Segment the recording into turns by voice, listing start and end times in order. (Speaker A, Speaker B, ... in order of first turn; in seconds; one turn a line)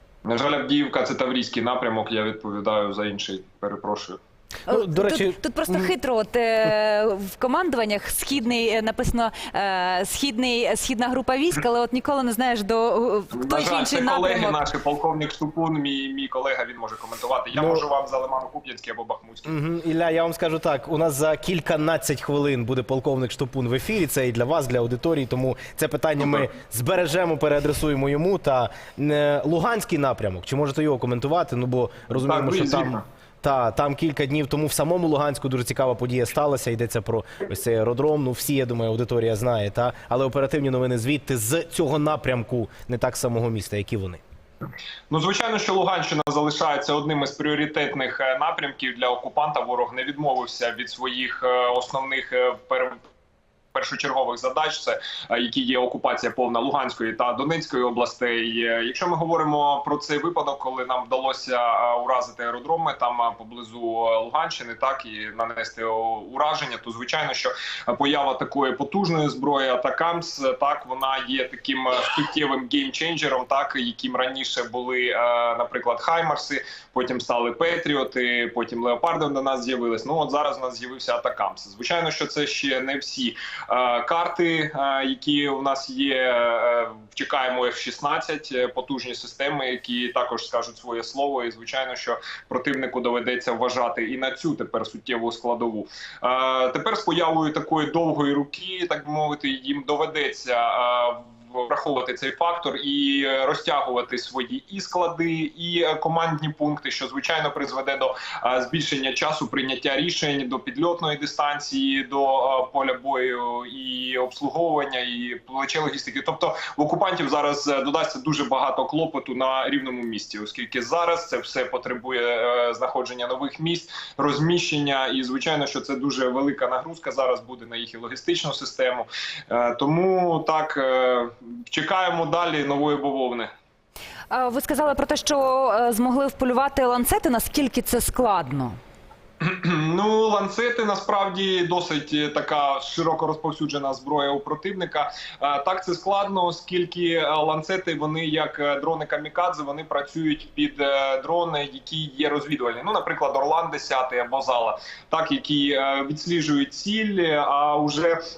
Speaker A: 0.2-4.2
Speaker B: 4.7-5.9
Speaker C: 4.7-14.6
Speaker A: 13.3-19.5
Speaker B: 17.6-17.8
Speaker B: 19.5-44.2
Speaker A: 32.2-33.0
Speaker A: 45.1-53.0
Speaker A: 53.7-133.5
Speaker C: 134.3-138.8
Speaker A: 139.4-158.2